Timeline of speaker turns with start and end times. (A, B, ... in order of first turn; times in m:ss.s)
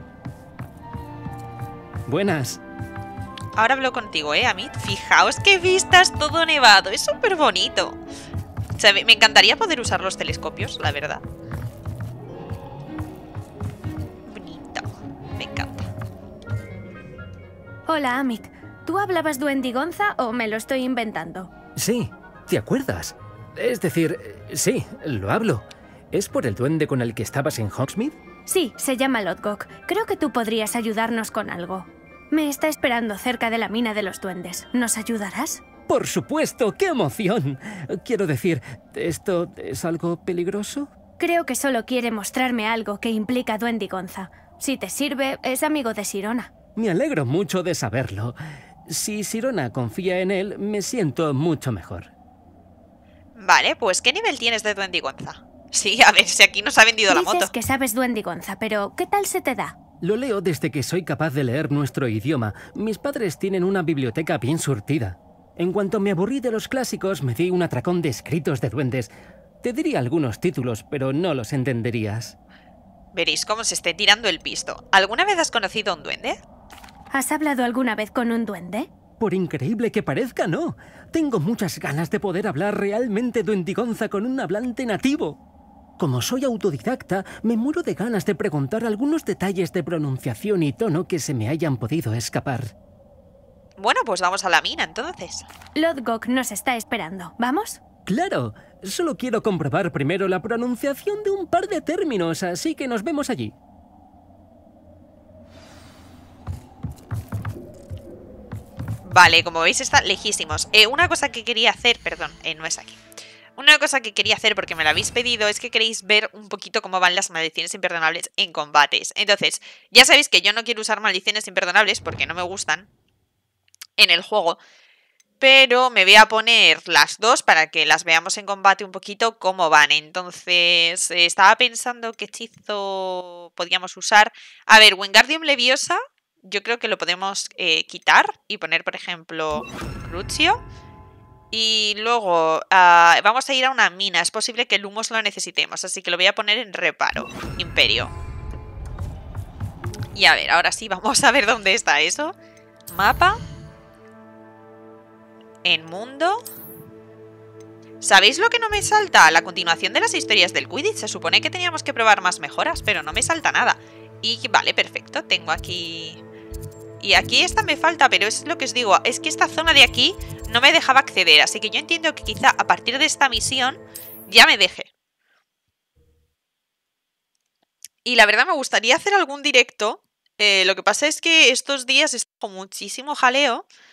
0:02.1-0:02.6 A
0:03.6-0:08.0 B
0:08.8-0:11.2 B
0:14.2-0:15.9 B
0:17.9-0:21.5 C
0:21.8-0:28.2 A
0:28.5-0:35.6 C
0:35.9-0:40.9 A
0:41.2-0:46.5 C
0:46.8-0:52.1 A
0:53.4-0:57.5 B
0:57.1-0:59.8 C
1:00.0-1:09.1 A
1:09.6-1:12.3 A
1:13.1-1:16.4 B
1:17.1-1:18.9 C
1:19.2-1:25.4 A
1:26.0-1:32.7 A
1:33.8-1:35.5 B
1:35.8-1:37.8 C
1:38.1-1:43.6 A
1:49.0-1:53.0 B
1:53.6-2:02.9 B
2:04.0-2:04.6 B
2:05.4-2:20.6 B
2:21.5-2:28.1 B
2:30.1-2:32.3 B
2:32.9-2:33.4 B
2:35.6-2:36.4 B
2:38.0-2:46.2 B
2:47.0-2:54.9 B
2:58.0-3:03.6 B